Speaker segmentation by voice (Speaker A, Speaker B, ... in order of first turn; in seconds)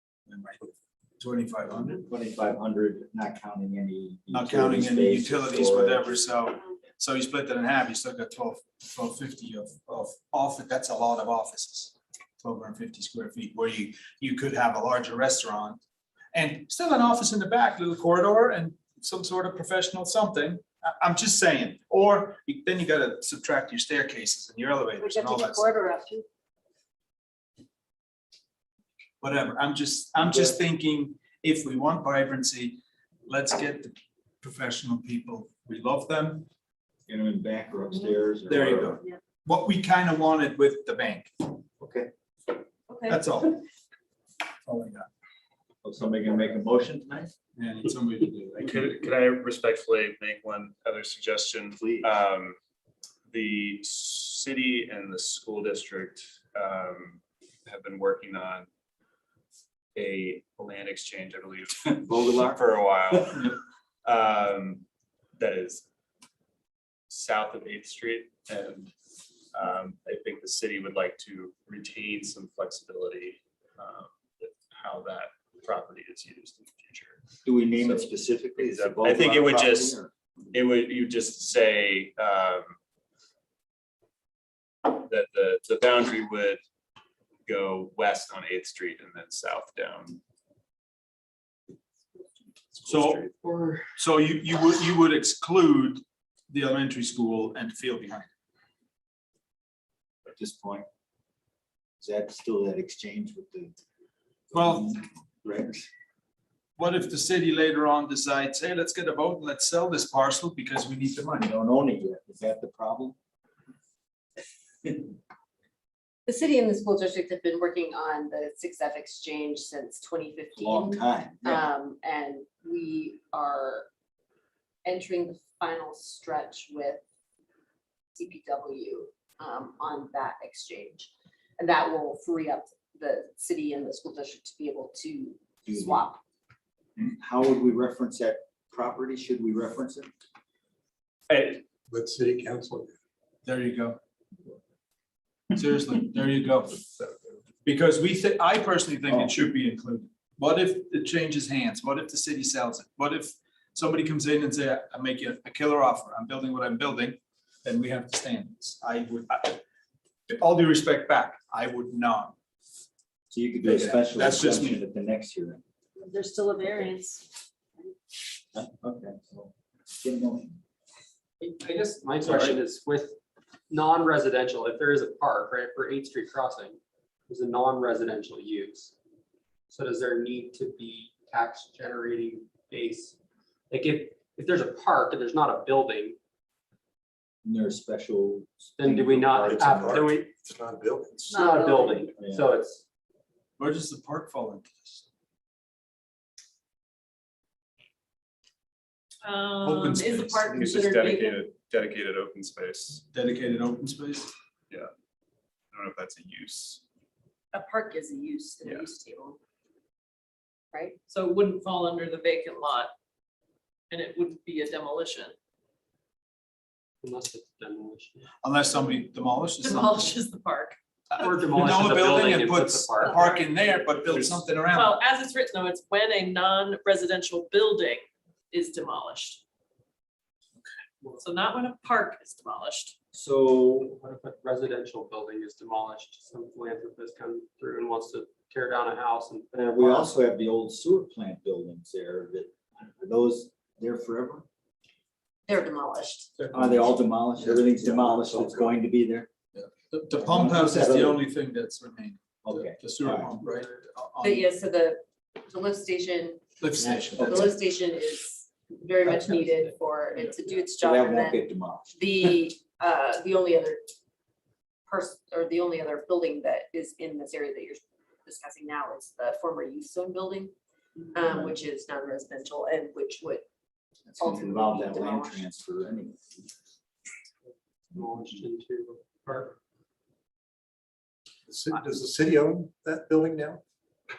Speaker A: 0.3-2.0, 4.3-15.8, 16.3-25.7, 29.2-36.5, 38.5-41.3, 43.1-43.6, 44.6-45.1, 47.5-48.8, 92.9-93.2, 94.0-98.3, 104.5-104.9, 106.8-111.5, 141.3-141.6, 143.4-144.0, 145.5-146.8, 147.6-159.6, 160.3-162.3, 163.6-164.8, 193.6-195.0, 199.6-200.6, 203.1-204.3, 218.4-220.1, 221.2-224.9, 249.5-254.5, 256.6-257.5
Speaker B: 2.0-6.1, 30.2-30.6, 37.1-39.0, 41.8-42.1, 45.8-47.3, 51.7-52.1, 62.0-63.5, 77.4-80.1, 100.3-100.8, 102.0-103.7, 104.5-105.9, 111.4-113.2, 120.5-121.6, 135.7-136.0, 137.0-140.1, 163.3-165.6, 168.5-170.6, 187.4-190.1, 192.2-192.5, 233.1-233.9, 239.7-244.4, 246.5-249.3, 250.2-251.2, 252.4-253.3, 256.8-257.5, 260.8-261.9, 271.3-271.5, 274.1-276.3
Speaker C: 25.0-26.2, 141.9-142.9, 189.5-191.4, 281.5-283.6
Speaker D: 25.6-26.2, 116.2-123.9, 124.8-127.0, 128.1-136.2, 207.5-209.4, 210.7-211.0, 245.5-246.3, 254.2-263.9, 264.9-270.5, 271.1-273.4, 274.2-275.4
Speaker E: 42.9-43.1, 166.0-167.3, 191.3-192.1, 199.2-201.4, 211.1-212.9, 213.9-215.3, 219.6-220.8, 223.0-223.9, 224.7-229.4, 231.2-232.9
Speaker F: 48.6-52.6, 53.3-58.7, 59.9-64.8, 65.4-65.8, 67.1-68.9, 69.5-77.2, 78.6-80.0, 80.5-82.8, 84.8-86.6, 87.5-90.2, 92.7-93.3, 200.5-203.0, 205.7-206.8
Speaker G: 93.4-93.9, 171.4-173.2, 173.7-178.9, 179.7-183.1, 183.7-186.2, 188.8-190.4, 191.4-192.8, 217.0-218.2, 221.2-223.2, 233.9-240.1, 259.1-259.7, 277.9-279.6